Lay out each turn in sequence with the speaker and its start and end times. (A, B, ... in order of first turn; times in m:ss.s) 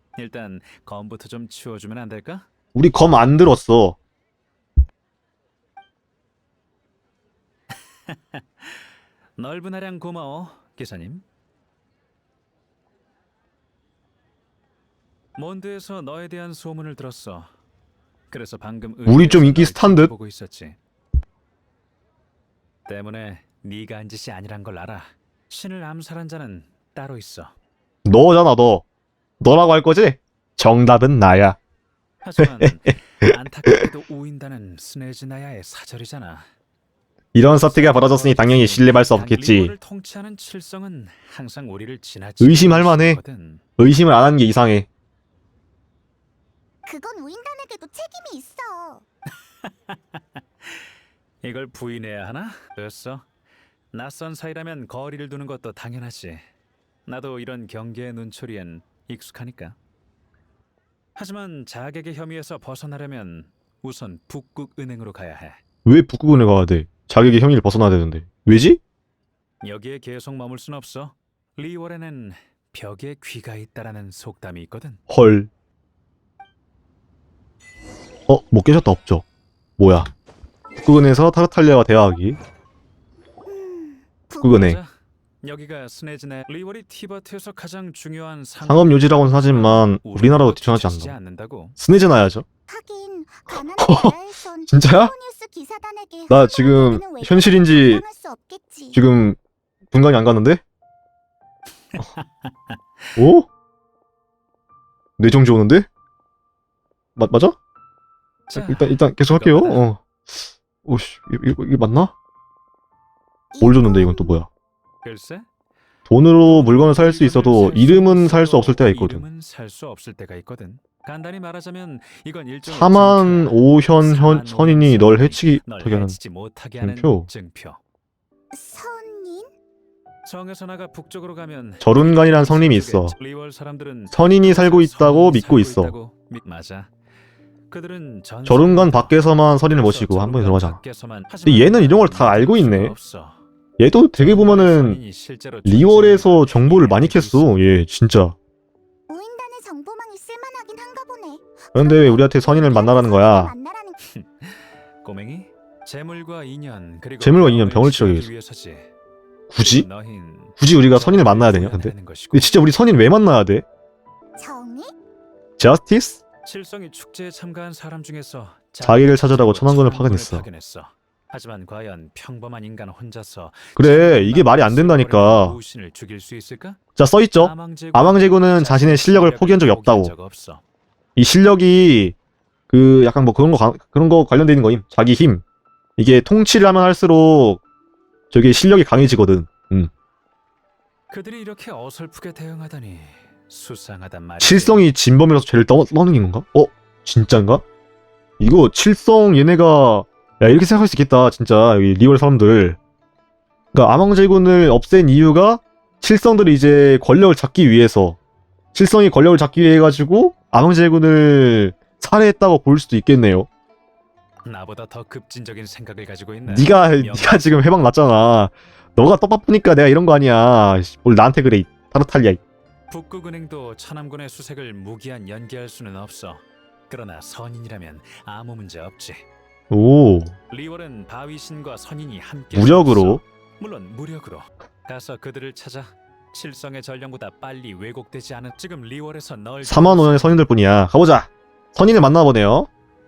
0:00.2-0:02.5 A
0:02.7-0:04.0 B
0:07.7-0:11.2 A
0:15.4-0:17.5 A
0:18.3-0:20.8 A
0:19.1-0:20.1 B
0:22.9-0:27.5 A
0:28.0-0:28.8 B
0:29.4-0:31.6 B
0:32.2-0:36.5 A
0:32.4-0:32.7 B
0:33.3-0:33.8 B
0:37.4-0:39.7 B
0:37.5-0:43.6 A
0:42.4-0:43.2 B
0:43.8-0:44.9 B
0:46.9-0:49.0 C
0:49.6-0:50.7 A
0:51.4-0:53.3 A
0:53.9-0:56.5 A
0:57.1-0:59.8 A
1:01.2-1:05.6 A
1:05.8-1:08.8 B
1:09.6-1:15.0 A
1:15.1-1:15.5 B
1:18.3-1:19.2 B
1:19.8-1:20.1 B
1:20.8-1:22.4 B
1:23.4-1:24.6 C
1:24.4-1:24.8 B
1:24.5-1:31.8 A
1:28.7-1:31.1 B
1:31.8-1:32.4 B
1:32.7-1:39.0 C
1:33.5-1:34.1 B
1:34.7-1:35.1 B
1:36.3-1:38.0 B
1:38.9-1:39.4 B
1:39.9-1:40.6 B
1:41.9-1:42.8 A
1:43.2-1:43.5 B
1:45.2-1:45.9 B
1:47.2-1:47.6 B
1:48.5-1:49.9 A
1:48.6-1:50.0 B
1:50.8-1:52.1 B
1:53.5-1:54.4 C
1:53.6-1:54.5 B
1:55.0-1:55.5 A
1:56.1-1:59.2 B
1:56.4-2:07.8 A
2:02.7-2:06.2 B
2:06.8-2:07.3 B
2:08.5-2:09.5 C
2:10.2-2:16.9 A
2:11.8-2:13.2 B
2:14.1-2:16.0 B
2:17.7-2:23.4 A
2:18.4-2:20.8 B
2:21.5-2:22.9 B
2:23.8-2:25.0 B
2:24.2-2:27.5 A
2:25.6-2:28.4 B
2:29.1-2:34.0 C
2:31.7-2:33.5 B
2:34.2-2:38.9 A
2:37.2-2:38.3 B
2:39.5-2:39.9 B
2:39.6-2:42.6 A
2:40.6-2:43.6 B
2:44.4-2:45.0 C
2:45.6-2:46.2 B
2:46.4-2:56.8 A
2:48.8-2:50.5 B
2:53.8-2:55.6 B
2:57.0-3:00.1 B
2:57.4-3:00.6 A
3:01.2-3:02.2 B
3:02.7-3:05.4 B
3:06.0-3:07.6 B
3:08.3-3:09.9 B
3:11.1-3:14.9 A
3:14.4-3:17.6 B
3:18.4-3:22.8 B
3:23.7-3:28.2 B
3:28.7-3:33.5 B
3:34.4-3:37.5 A
3:36.5-3:42.4 B
3:42.9-3:49.2 A
3:49.7-3:50.4 B
3:50.5-4:00.4 A
3:52.5-3:53.2 B
3:59.6-4:02.7 B